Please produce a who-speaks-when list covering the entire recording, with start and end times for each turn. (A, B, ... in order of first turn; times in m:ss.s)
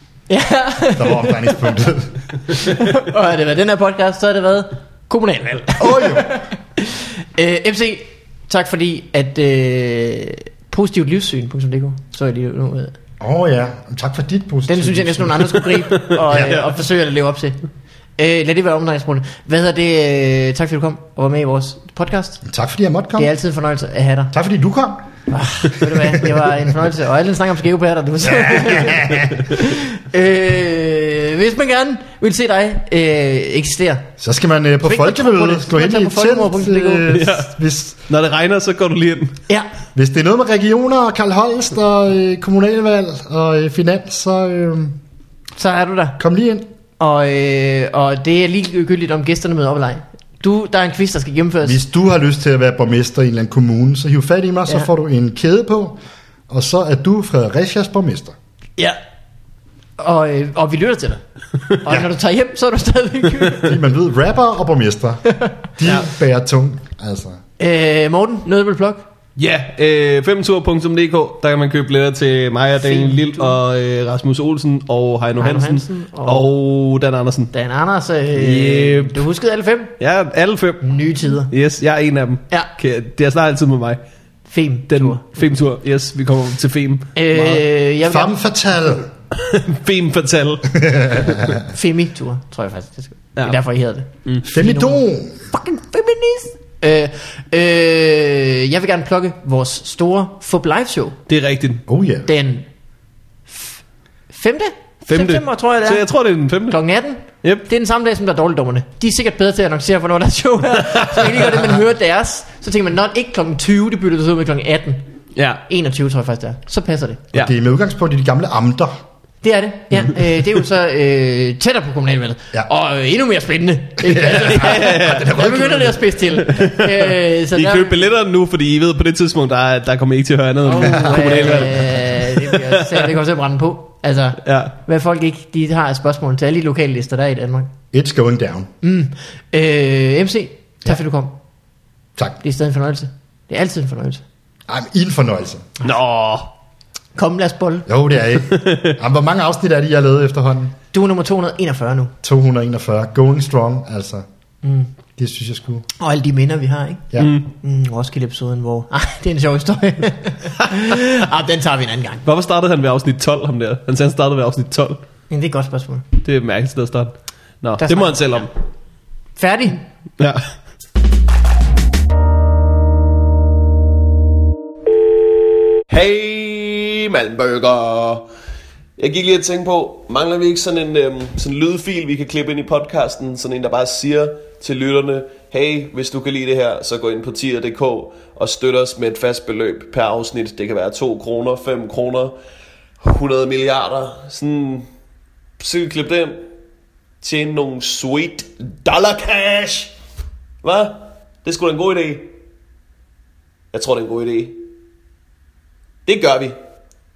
0:00.3-0:01.6 A
0:01.0-0:02.2 B
0:02.5-0:12.9 A
0:05.8-0:06.4 B
0:13.2-0:15.6 B
0:14.7-0:17.6 A
0:15.6-0:16.7 C
0:18.2-0:22.4 A
0:22.4-0:23.3 B
0:23.2-0:24.3 A
0:24.3-0:25.1 B
0:25.3-0:34.1 A
0:25.8-0:26.5 B
0:28.2-0:29.5 B
0:34.2-0:38.0 B
0:34.8-0:37.1 A
0:37.1-0:37.5 C
0:38.1-0:39.3 C
0:39.9-0:45.0 B
0:45.6-0:46.2 A
0:46.2-0:46.6 B
0:47.0-0:51.8 A
0:51.6-0:56.0 B
0:56.5-0:58.3 B
1:00.0-1:01.2 A
1:01.8-1:03.8 A
1:01.8-1:02.1 B
1:03.4-1:07.4 B
1:07.6-1:09.0 A
1:09.4-1:17.5 C
1:12.8-1:13.6 A
1:15.4-1:16.5 A
1:17.5-1:19.9 A
1:18.3-1:19.2 C
1:20.0-1:20.9 C
1:20.8-1:21.5 A
1:21.5-1:24.0 C
1:24.5-1:25.4 A
1:24.9-1:27.1 C
1:27.2-1:28.3 A
1:27.4-1:29.1 B
1:29.3-1:30.8 C
1:30.7-1:31.6 B
1:31.6-1:41.2 A
1:34.5-1:35.4 B
1:41.3-1:41.8 C
1:41.9-1:42.3 B
1:42.3-1:42.7 A
1:43.5-1:43.8 A
1:44.3-1:46.1 A
1:45.1-1:46.8 C
1:46.7-1:55.0 A
1:50.8-1:51.4 C
1:55.4-1:55.6 C
1:55.7-1:57.3 A
1:57.3-1:58.9 B
1:59.4-2:08.1 A
2:04.0-2:06.0 B
2:04.4-2:05.4 C
2:06.3-2:13.1 C
2:10.6-2:17.7 A
2:10.8-2:11.5 B
2:14.4-2:14.7 C
2:17.9-2:18.7 B
2:18.8-2:21.3 A
2:22.4-2:24.2 A
2:24.7-2:25.7 B
2:25.8-2:26.5 C
2:27.2-2:27.9 A
2:27.9-2:30.8 B
2:28.4-2:29.0 C
2:30.9-2:32.1 A
2:32.2-2:34.2 B
2:34.6-2:34.9 A
2:35.2-2:35.8 B
2:36.0-2:42.2 A
2:37.2-2:37.5 C
2:42.2-2:45.0 C
2:45.3-2:46.0 A
2:46.2-2:48.5 C
2:47.8-2:48.4 A
2:49.4-2:49.8 A
2:50.2-2:50.5 C
2:55.9-2:58.2 C
2:59.0-3:12.3 C
3:13.0-3:14.9 C
3:15.6-3:16.4 C
3:17.2-3:19.9 C
3:20.6-3:22.3 C
3:23.7-3:24.6 C
3:26.0-3:26.6 C